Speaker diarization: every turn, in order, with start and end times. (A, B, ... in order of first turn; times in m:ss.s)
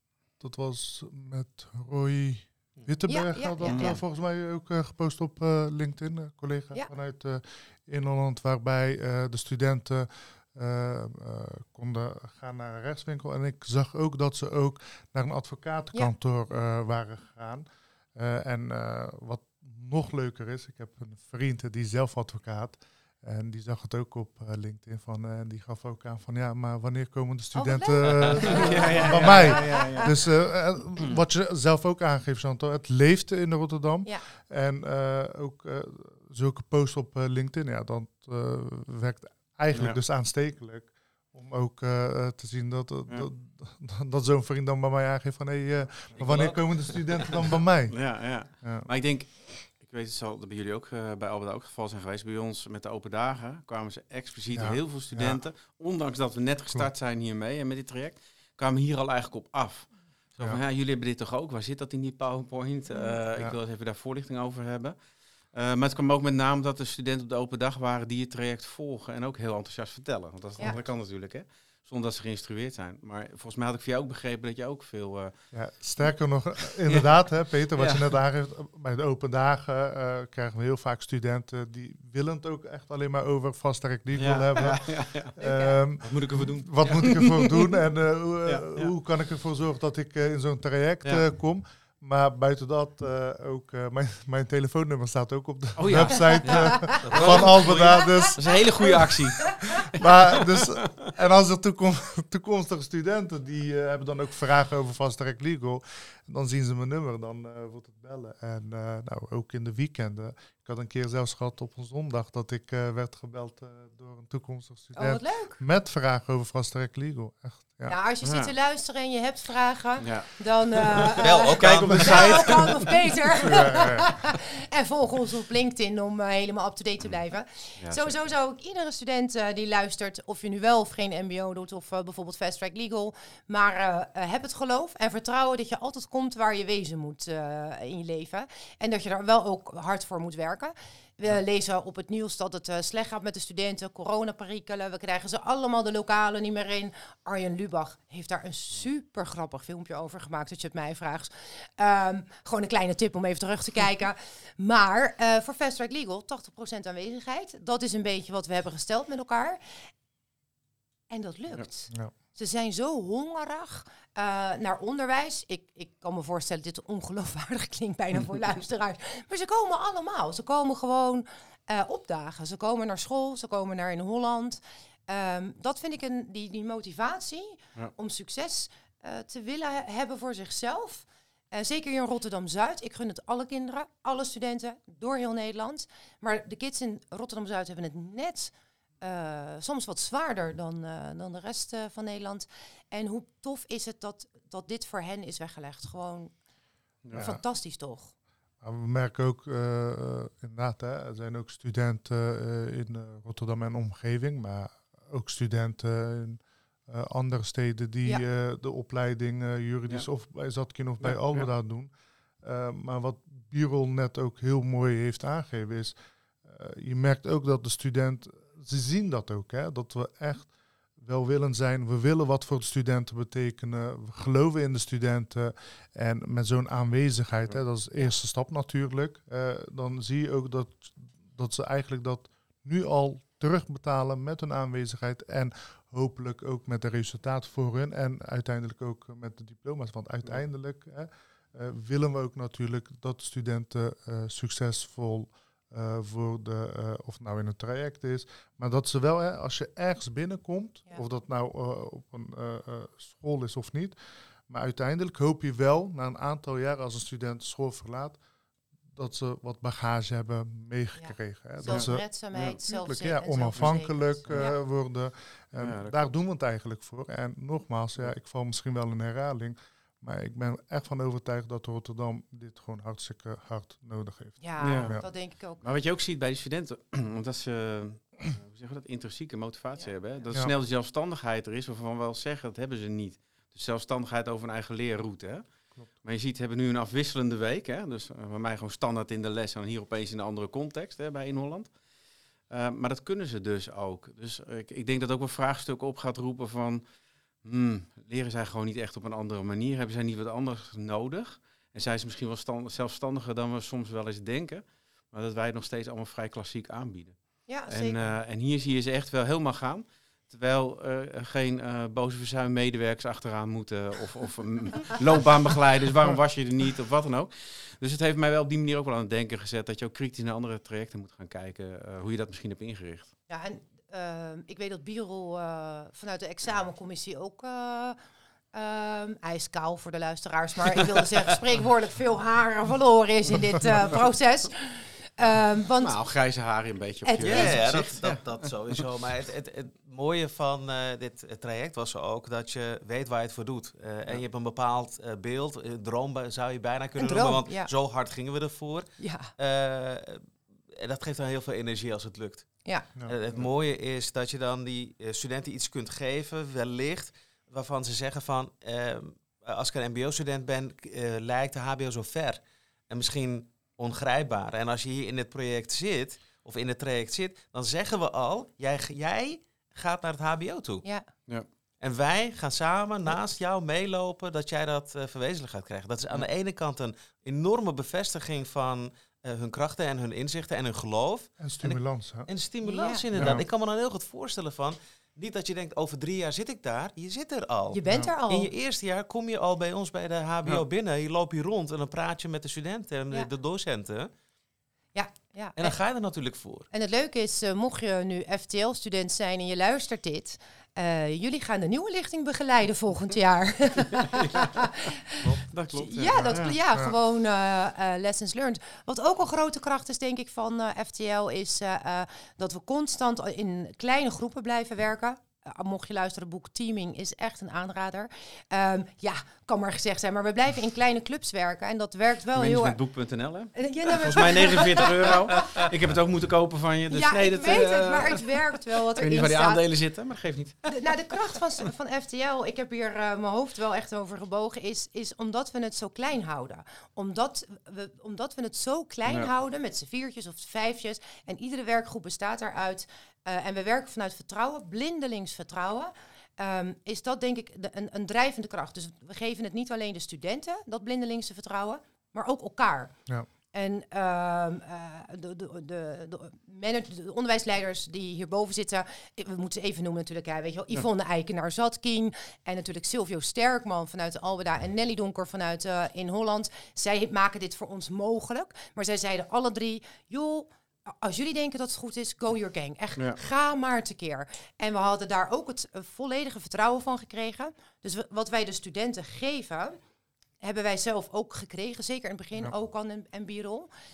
0:00.4-0:48.9 A
0:03.1-0:04.0 B
0:03.6-0:04.0 C
0:27.6-0:30.1 B
0:28.5-0:30.2 C
0:39.7-0:40.0 C
0:46.2-1:05.0 C
0:54.5-0:55.4 A
1:05.5-1:15.3 C
1:15.5-1:38.6 A
1:16.8-1:17.1 C
1:17.8-1:18.1 C
1:24.2-1:25.3 C
1:25.4-1:25.8 B
1:26.0-1:27.7 C
1:28.5-1:28.9 C
1:35.8-1:41.1 C
1:37.0-1:38.1 D
1:38.9-1:39.6 B
1:39.6-1:58.0 A
1:55.0-1:55.6 B
1:57.9-2:39.6 B
1:58.2-1:58.5 C
2:00.0-2:02.9 C
2:01.1-2:02.5 D
2:03.5-2:04.1 A
2:41.1-3:16.3 B
3:17.1-3:17.4 A
3:17.2-3:18.1 B
3:18.6-4:14.0 A
3:31.0-3:31.5 C
4:14.5-4:18.2 A
4:18.9-4:35.0 A
4:21.0-4:24.6 B
4:21.6-4:22.6 C
4:25.6-4:26.0 C
4:34.4-4:35.6 B
4:34.6-4:35.1 C
4:35.6-4:45.5 C
4:46.0-4:51.7 C
4:52.5-4:56.8 C
4:57.4-5:23.1 C
5:07.5-5:08.1 B
5:23.3-5:28.0 B
5:28.5-5:36.0 B
5:35.8-5:38.5 C
5:37.0-5:37.6 B
5:37.2-6:10.8 D
5:47.0-5:47.7 B
5:49.0-5:49.3 B
6:11.8-6:34.1 D
6:21.4-6:22.3 A
6:22.6-6:23.1 B
6:23.1-6:23.4 A
6:27.7-6:28.5 B
6:27.9-6:28.1 A
6:35.0-6:35.8 B
6:35.6-6:36.7 D
6:36.7-7:02.8 B
6:44.0-6:44.5 C
6:45.2-6:46.6 C
6:46.1-6:47.0 A
7:02.4-7:08.4 C
7:03.6-7:05.7 B
7:06.9-7:09.6 B
7:09.0-7:10.7 C
7:10.7-7:33.0 B
7:33.5-7:59.8 B
8:00.4-8:03.7 B